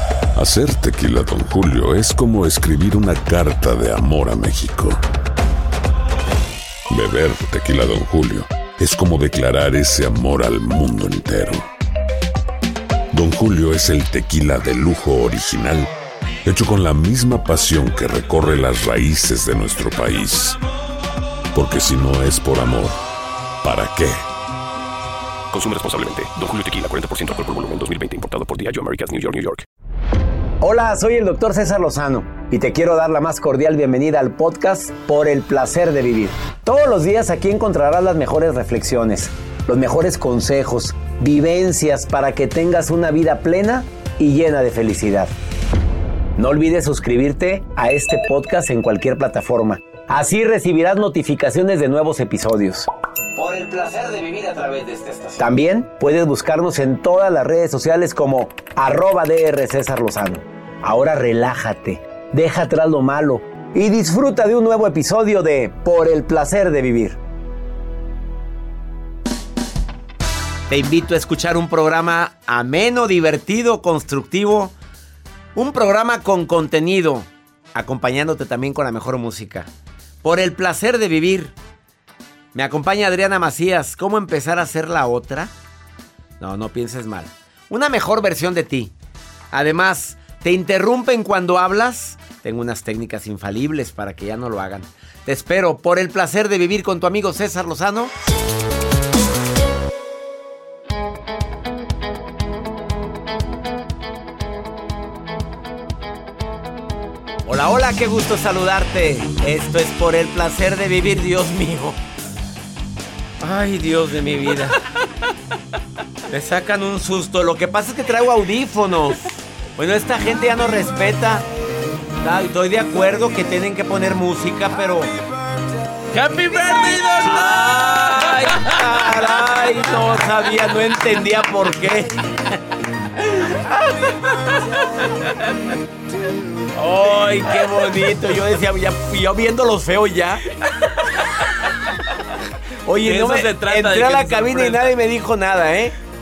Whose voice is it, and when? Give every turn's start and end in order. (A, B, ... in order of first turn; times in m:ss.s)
0:00.3-0:05.0 A
0:06.9-0:11.7 A
0:13.1-0:15.9 A
0:16.4-0:20.6 A
0:21.5-0:23.0 A
0:23.6-0:24.2 A
0:25.5-0:29.6 B
0:30.6-0:45.3 C
0:46.4-1:07.2 C
1:10.7-1:14.7 C
1:15.5-1:19.7 C
1:20.2-1:21.5 C
1:22.5-1:25.5 C
1:26.4-1:28.9 C
1:29.5-1:38.1 C
1:47.4-1:52.0 C
1:53.4-1:54.8 C
1:56.3-2:01.4 C
2:02.2-2:05.1 C
2:06.1-2:09.5 D
2:07.2-2:12.6 C
2:14.4-2:15.4 D
2:16.7-2:20.4 C
2:22.8-2:26.0 C
2:23.0-2:25.0 D